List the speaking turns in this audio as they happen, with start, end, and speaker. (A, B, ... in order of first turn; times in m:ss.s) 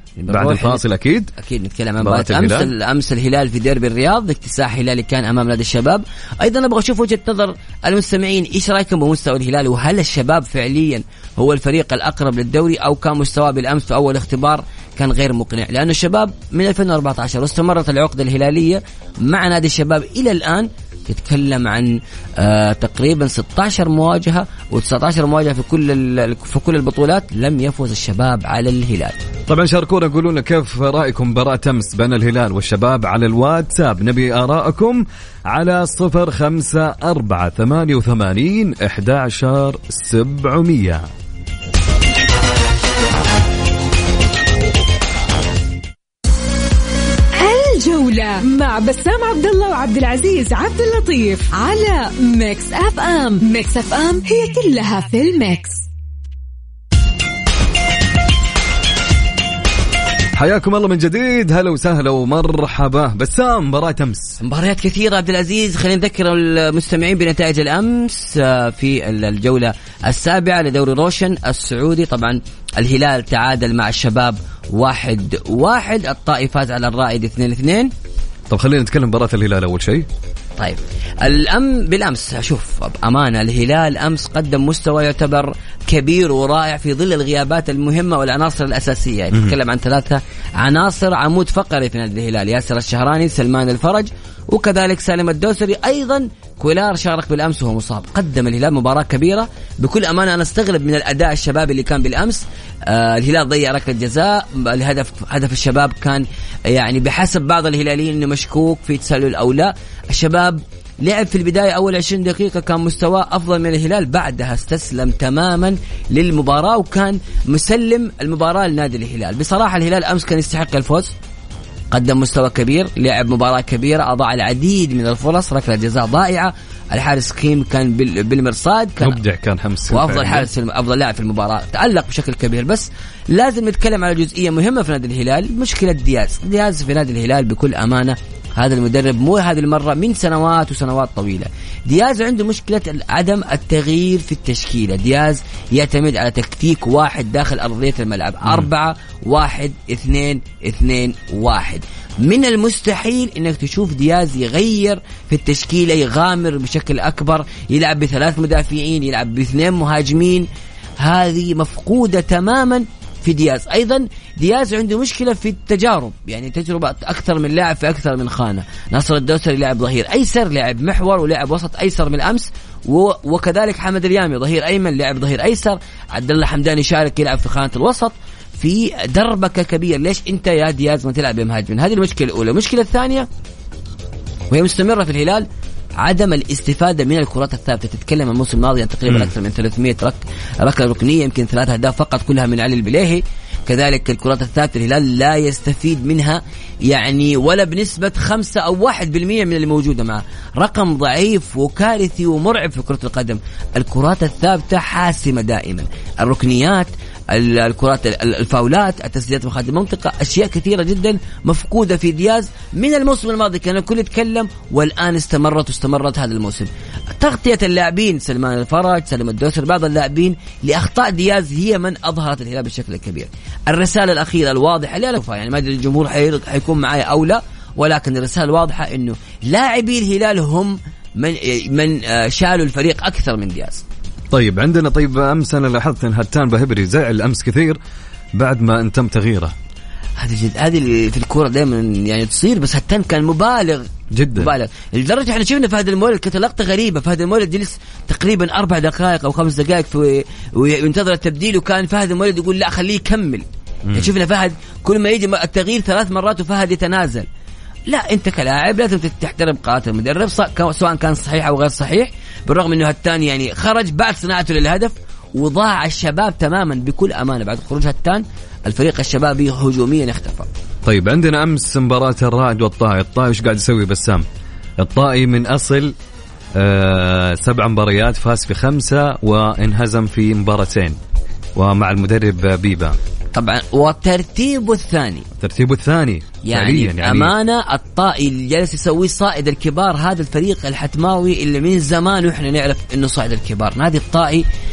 0:00.2-0:29.2 A
0:00.3-0:01.3 B
0:02.0-0:02.7 B
0:29.5-0:41.1 B
0:47.4-0:55.8 C
1:00.3-1:04.4 B
1:04.4-1:17.9 A
1:18.5-1:20.1 B
1:20.6-2:01.1 A
2:01.9-2:09.2 A
2:09.0-2:10.5 B
2:09.9-2:40.5 A
2:41.0-3:03.3 A
3:04.5-3:05.5 A
3:06.0-3:53.8 A
3:54.3-3:57.8 B
3:58.4-3:59.5 B
4:00.2-4:17.3 A
4:04.1-4:04.5 B
4:13.9-4:14.1 B
4:17.9-4:30.5 A
4:30.8-4:34.2 B
4:34.8-4:35.9 B
4:36.5-4:41.0 B
4:41.5-4:43.0 B
4:43.3-4:45.2 A
4:45.4-4:47.3 B
4:46.4-4:54.4 A